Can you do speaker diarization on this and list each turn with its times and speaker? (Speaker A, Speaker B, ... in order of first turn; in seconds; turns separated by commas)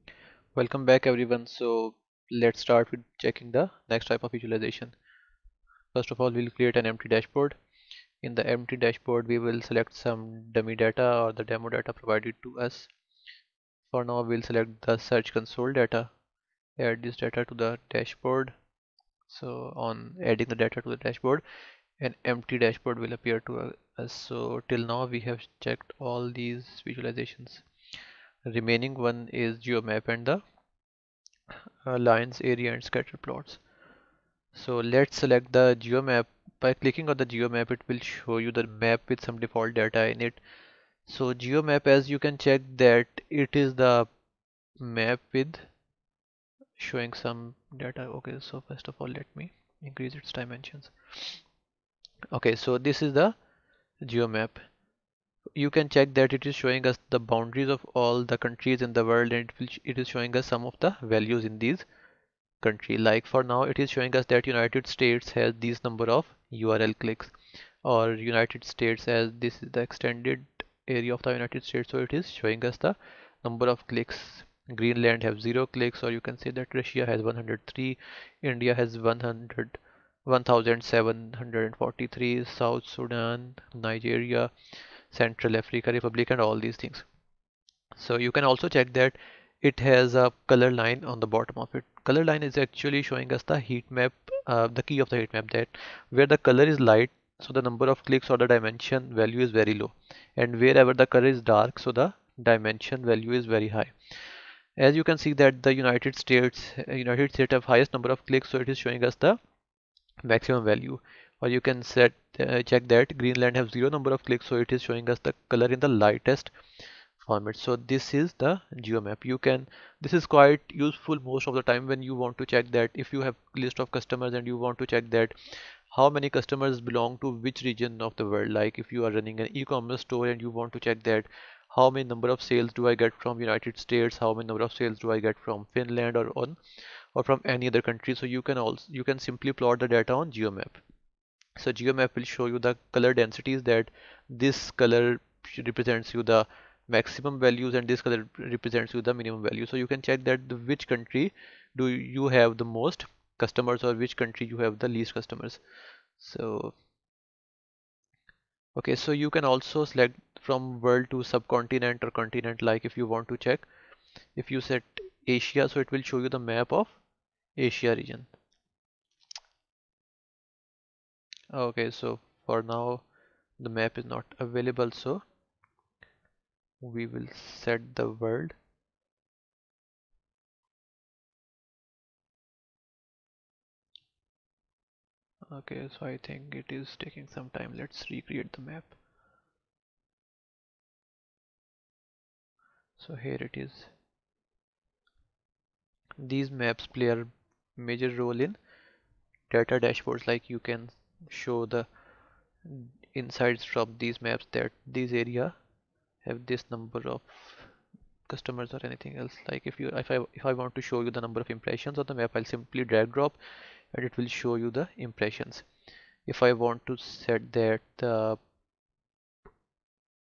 Speaker A: 0.5-4.9, Speaker A: 5.9-7.6, Speaker A: 8.2-12.9, Speaker A: 13.9-16.1, Speaker A: 16.8-18.6, Speaker A: 19.3-21.4, Speaker A: 22.0-27.6, Speaker A: 28.4-30.4, Speaker A: 31.8-33.6, Speaker A: 34.5-40.4, Speaker A: 41.1-44.1, Speaker A: 44.8-45.7, Speaker A: 46.8-51.4, Speaker A: 52.3-53.3, Speaker A: 54.0-54.7, Speaker A: 55.5-61.8, Speaker A: 62.6-84.5, Speaker A: 85.1-87.0, Speaker A: 88.0-103.9, Speaker A: 104.8-109.4, Speaker A: 110.2-116.5, Speaker A: 117.2-125.3, Speaker A: 125.9-136.6, Speaker A: 137.1-140.8, Speaker A: 141.6-155.6, Speaker A: 156.2-156.7, Speaker A: 158.7-163.7, Speaker A: 164.3-167.0, Speaker A: 167.6-168.3, Speaker A: 171.5-173.1, Speaker A: 173.6-175.2, Speaker A: 176.8-178.6, Speaker A: 185.5-188.9, Speaker A: 193.0-193.9, Speaker A: 196.2-198.6, Speaker A: 199.5-201.9, Speaker A: 202.6-205.5, Speaker A: 206.2-207.7, Speaker A: 208.3-213.4, Speaker A: 213.9-215.7, Speaker A: 216.2-218.4